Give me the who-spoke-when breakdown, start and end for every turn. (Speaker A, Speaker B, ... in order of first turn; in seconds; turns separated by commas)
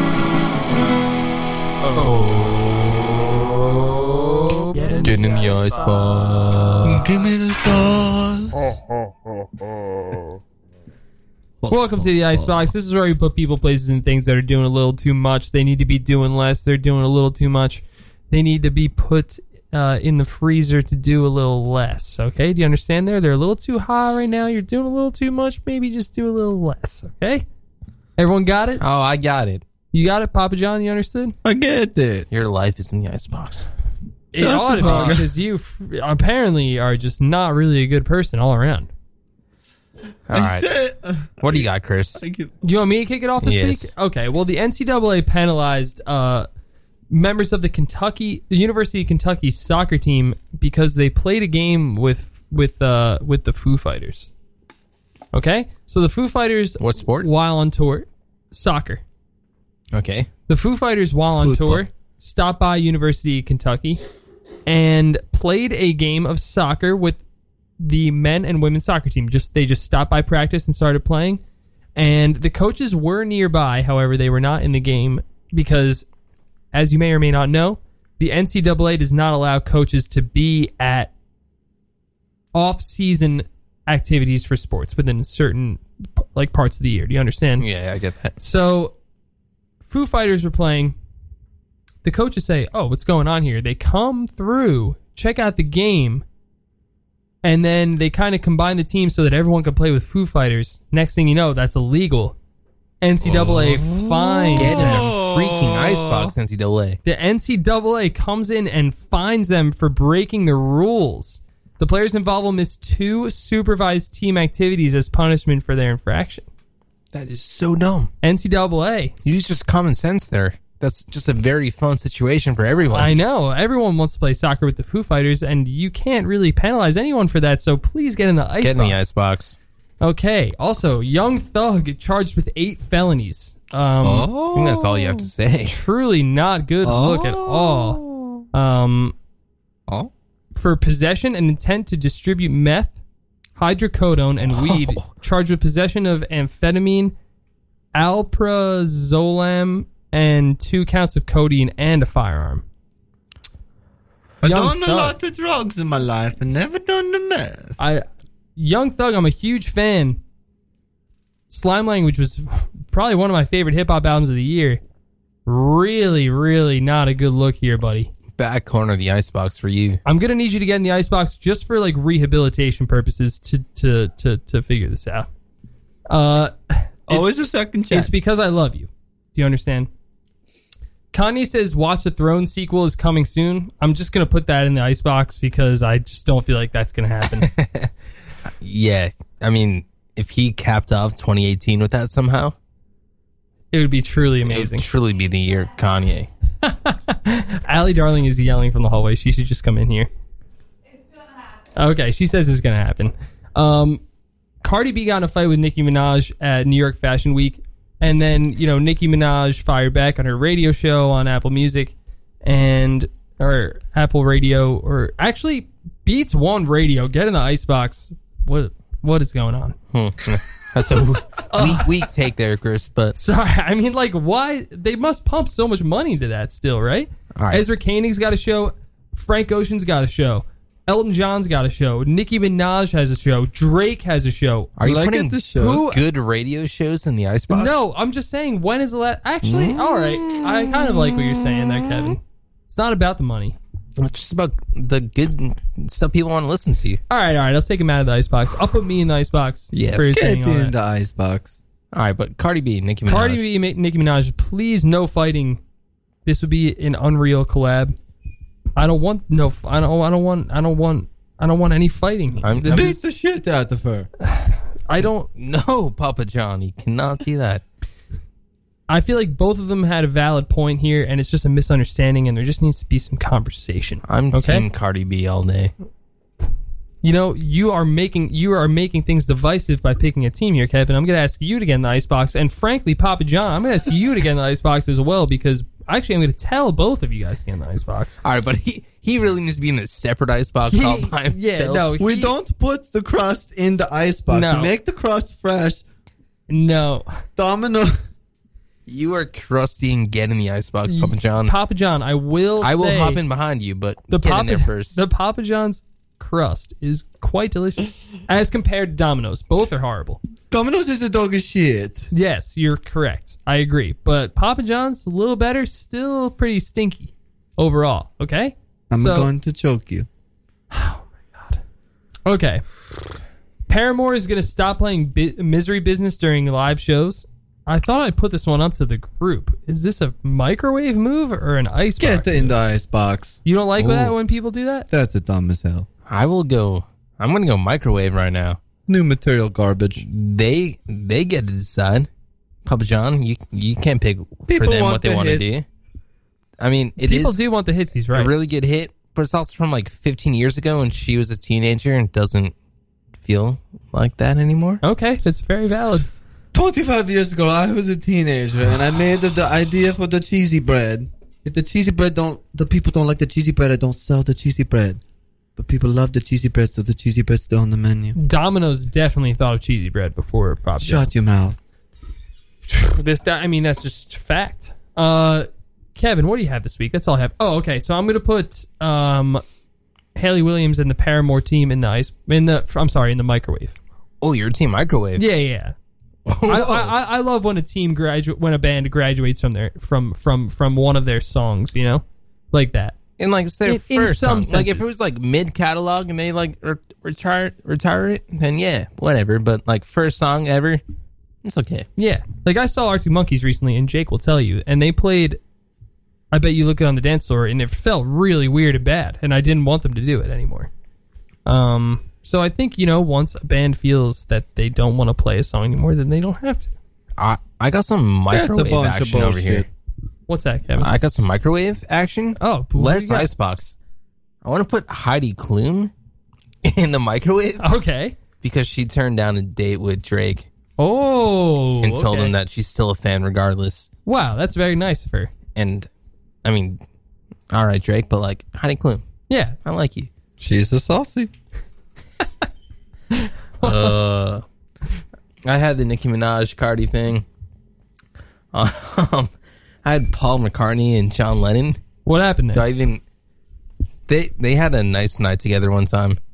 Speaker A: 4.7-6.1, Speaker B: 5.0-7.1, Speaker C: 6.8-8.8, Speaker C: 11.6-12.7, Speaker A: 11.7-27.4, Speaker A: 28.2-28.8, Speaker B: 28.8-29.6, Speaker A: 29.9-31.4, Speaker C: 31.4-32.3, Speaker B: 32.3-33.7, Speaker A: 34.3-38.9, Speaker C: 34.3-35.3, Speaker B: 34.8-35.2, Speaker B: 40.3-40.7, Speaker C: 40.3-42.5, Speaker B: 41.4-42.2, Speaker A: 42.6-46.5, Speaker B: 43.4-43.9, Speaker A: 47.1-54.3, Speaker A: 55.3-59.0, Speaker B: 56.8-57.3, Speaker B: 59.9-60.3, Speaker A: 60.5-64.0, Speaker C: 61.3-61.9, Speaker A: 64.7-67.2, Speaker A: 67.8-71.4, Speaker A: 72.0-76.1, Speaker A: 76.7-81.1, Speaker A: 82.5-87.7, Speaker B: 87.6-88.4, Speaker A: 88.4-89.0, Speaker A: 89.9-91.0, Speaker A: 92.0-96.2, Speaker A: 97.4-102.4, Speaker A: 103.0-104.9, Speaker B: 103.2-103.7, Speaker C: 103.7-106.3, Speaker B: 104.6-107.0, Speaker A: 107.0-116.5, Speaker B: 117.1-118.1, Speaker A: 118.2-119.1, Speaker B: 119.2-123.2, Speaker A: 122.9-129.1, Speaker B: 128.6-129.6, Speaker A: 130.0-134.3, Speaker C: 134.0-135.3, Speaker B: 134.5-135.8, Speaker A: 135.7-138.0, Speaker C: 136.8-138.4, Speaker A: 138.5-139.2, Speaker A: 140.6-142.9, Speaker A: 143.6-147.1, Speaker B: 144.6-145.1, Speaker A: 147.9-152.6, Speaker C: 154.4-157.8, Speaker A: 154.4-155.1, Speaker A: 157.8-158.0, Speaker A: 158.6-160.2, Speaker A: 161.5-164.8, Speaker A: 165.4-168.1, Speaker B: 168.4-170.0, Speaker A: 170.1-175.3, Speaker A: 176.1-179.9, Speaker C: 177.1-178.2, Speaker A: 181.1-187.5, Speaker B: 187.4-187.9, Speaker B: 188.6-192.6, Speaker A: 193.7-194.9, Speaker B: 194.5-196.3, Speaker A: 196.6-200.1, Speaker A: 201.8-204.0, Speaker A: 204.6-219.8, Speaker B: 219.9-223.2, Speaker A: 221.5-221.9, Speaker A: 223.2-234.7, Speaker B: 227.4-227.7, Speaker B: 234.8-237.9, Speaker C: 234.8-236.0, Speaker A: 237.5-243.6, Speaker C: 239.4-241.6, Speaker B: 244.0-247.0, Speaker A: 247.1-250.8, Speaker B: 249.7-250.2, Speaker C: 250.1-251.6, Speaker B: 251.9-253.4, Speaker A: 253.1-255.6, Speaker A: 256.3-257.9, Speaker A: 258.8-263.0, Speaker B: 262.4-262.9, Speaker C: 262.6-264.1, Speaker A: 264.4-265.3, Speaker B: 265.3-267.6, Speaker A: 268.9-274.6, Speaker B: 274.1-275.7, Speaker A: 277.0-288.2, Speaker B: 288.2-291.9, Speaker A: 290.7-292.4, Speaker C: 292.0-295.8, Speaker A: 294.3-294.7, Speaker A: 296.5-297.1, Speaker C: 297.4-298.0, Speaker B: 298.9-301.5, Speaker A: 300.9-303.2, Speaker B: 302.6-305.0, Speaker A: 304.1-310.2, Speaker C: 310.5-312.1, Speaker A: 312.1-319.3, Speaker C: 318.9-320.1, Speaker A: 320.7-321.6, Speaker A: 322.3-322.6, Speaker A: 323.7-332.6, Speaker C: 332.0-333.4, Speaker A: 333.4-334.9, Speaker B: 333.8-334.1, Speaker C: 334.9-335.9, Speaker B: 336.1-338.6, Speaker C: 338.9-340.1, Speaker B: 340.0-342.1, Speaker B: 342.7-345.6, Speaker C: 344.5-345.6, Speaker B: 346.6-347.4, Speaker A: 347.0-348.3, Speaker B: 348.1-352.5, Speaker B: 353.2-354.8, Speaker A: 354.8-356.1, Speaker C: 356.5-365.0, Speaker C: 365.6-368.2, Speaker A: 368.2-371.2, Speaker C: 370.8-371.6, Speaker A: 372.7-379.4, Speaker A: 380.2-383.7, Speaker B: 384.2-385.3, Speaker A: 385.2-385.7, Speaker B: 386.3-386.9, Speaker A: 386.5-392.9, Speaker B: 393.2-400.8, Speaker A: 393.7-394.9, Speaker B: 401.4-401.9, Speaker A: 402.0-405.4, Speaker A: 406.3-410.7, Speaker A: 411.4-416.7, Speaker B: 417.2-419.7, Speaker C: 418.3-419.7, Speaker A: 420.3-420.9, Speaker B: 420.8-423.7, Speaker A: 422.4-423.3, Speaker B: 424.4-425.9, Speaker B: 426.6-427.7, Speaker A: 427.6-428.2, Speaker B: 428.4-430.5, Speaker A: 430.8-432.3, Speaker B: 431.8-433.9, Speaker A: 434.1-435.3, Speaker B: 435.6-435.9, Speaker B: 436.4-436.8, Speaker B: 437.5-439.0, Speaker A: 439.3-439.6, Speaker B: 439.6-440.1, Speaker C: 440.4-441.3, Speaker A: 443.1-443.9, Speaker B: 443.6-444.4, Speaker B: 445.4-447.3, Speaker B: 448.5-449.3, Speaker B: 449.8-451.8, Speaker A: 452.1-452.6, Speaker B: 452.5-453.0, Speaker B: 454.1-456.2